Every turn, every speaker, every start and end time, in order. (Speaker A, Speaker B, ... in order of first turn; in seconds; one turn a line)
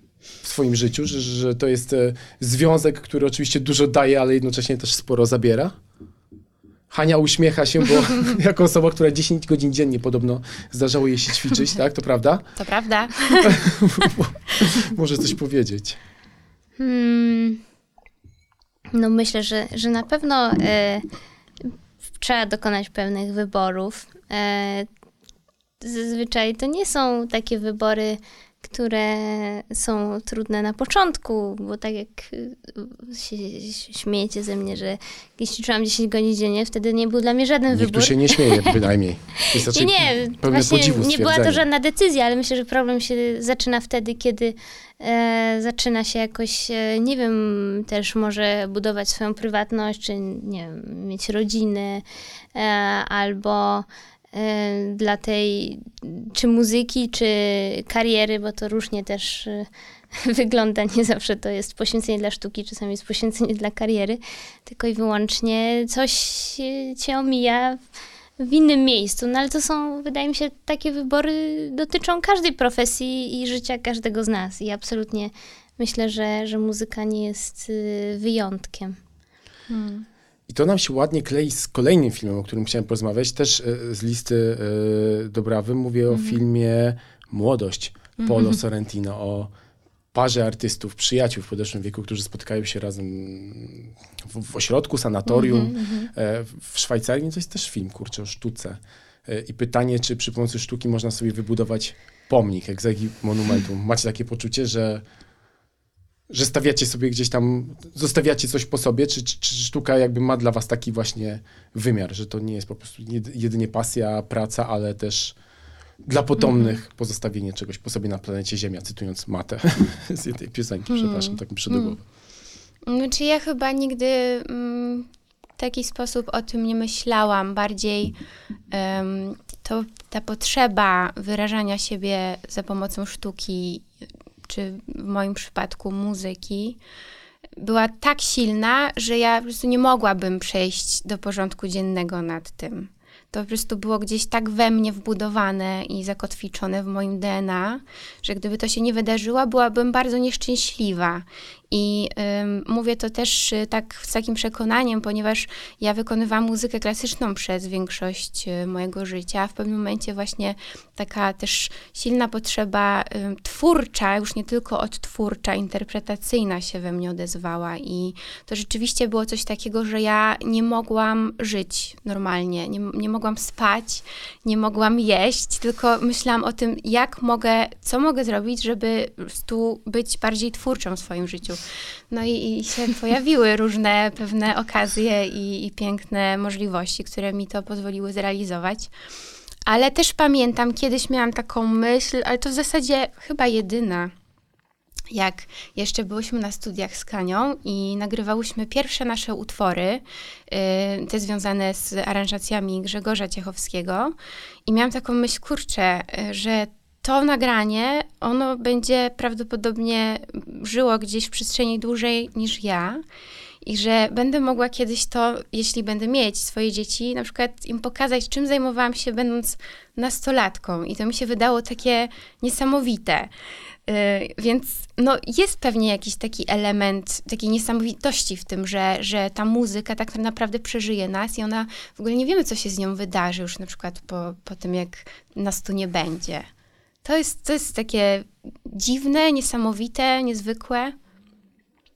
Speaker A: 0.4-5.7
Speaker A: 6.9-12.4
Speaker B: 12.6-13.6
Speaker A: 13.4-16.0
Speaker C: 16.8-17.6
Speaker C: 18.9-21.0
Speaker C: 21.6-24.9
Speaker C: 25.8-38.7
Speaker A: 37.7-41.6
Speaker C: 39.5-67.8
Speaker C: 68.4-79.0
Speaker B: 79.7-80.0
Speaker A: 80.5-89.5
Speaker B: 86.1-86.4
Speaker B: 88.2-88.6
Speaker A: 90.1-105.0
Speaker B: 95.3-96.1
Speaker A: 106.3-115.3
Speaker A: 116.0-122.0
Speaker B: 116.4-116.7
Speaker B: 120.9-122.0
Speaker B: 122.8-128.2
Speaker B: 128.7-133.9
Speaker B: 134.5-136.8
Speaker B: 137.6-188.9
Speaker B: 189.7-194.1
Speaker B: 195.1-204.1
Speaker B: 204.7-213.0
Speaker B: 213.6-223.3
Speaker B: 223.9-236.5
Speaker B: 237.0-240.9